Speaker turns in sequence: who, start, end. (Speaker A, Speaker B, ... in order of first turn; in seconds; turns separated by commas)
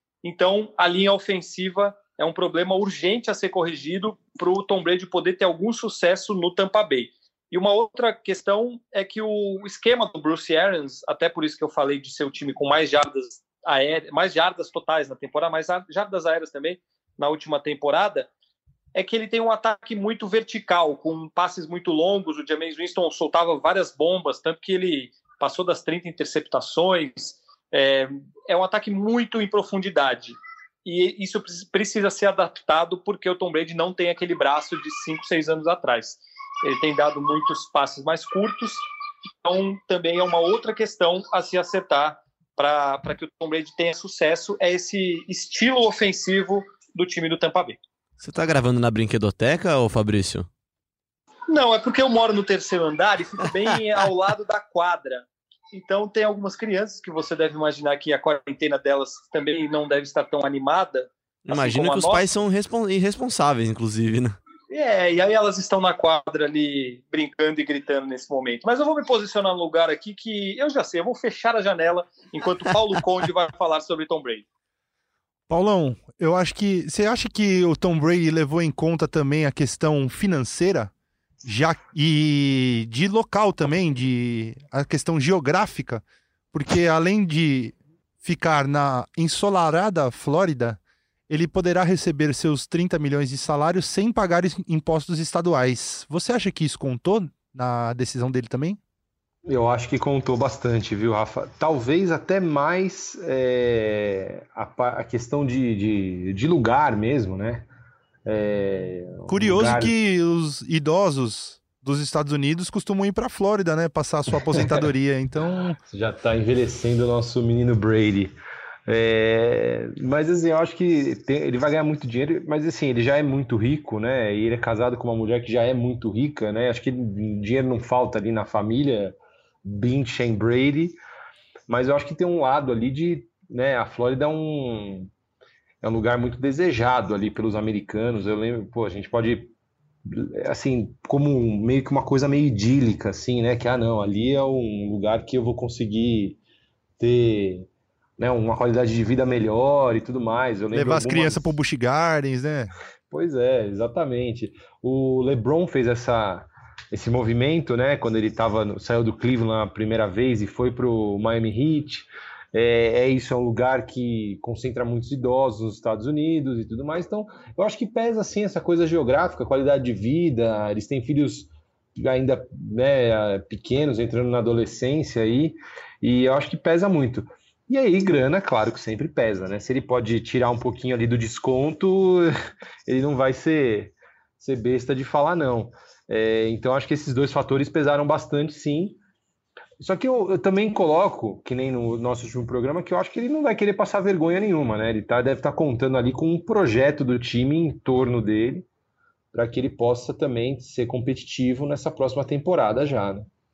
Speaker A: 0.2-18.3, Speaker A: 18.9-38.8, Speaker A: 39.4-47.8, Speaker B: 48.2-50.5, Speaker A: 51.5-62.2, Speaker B: 61.5-64.4, Speaker A: 64.7-74.5, Speaker C: 75.5-80.9, Speaker C: 81.5-98.8, Speaker D: 99.5-107.7, Speaker D: 108.3-109.9, Speaker C: 109.3-115.8, Speaker D: 115.9-118.3, Speaker D: 118.9-131.0, Speaker D: 131.7-135.1, Speaker D: 135.8-139.5, Speaker D: 140.1-146.4, Speaker D: 147.0-151.5, Speaker C: 150.7-152.7, Speaker D: 153.1-182.3, Speaker D: 182.9-189.0, Speaker D: 189.8-198.7, Speaker D: 199.3-203.3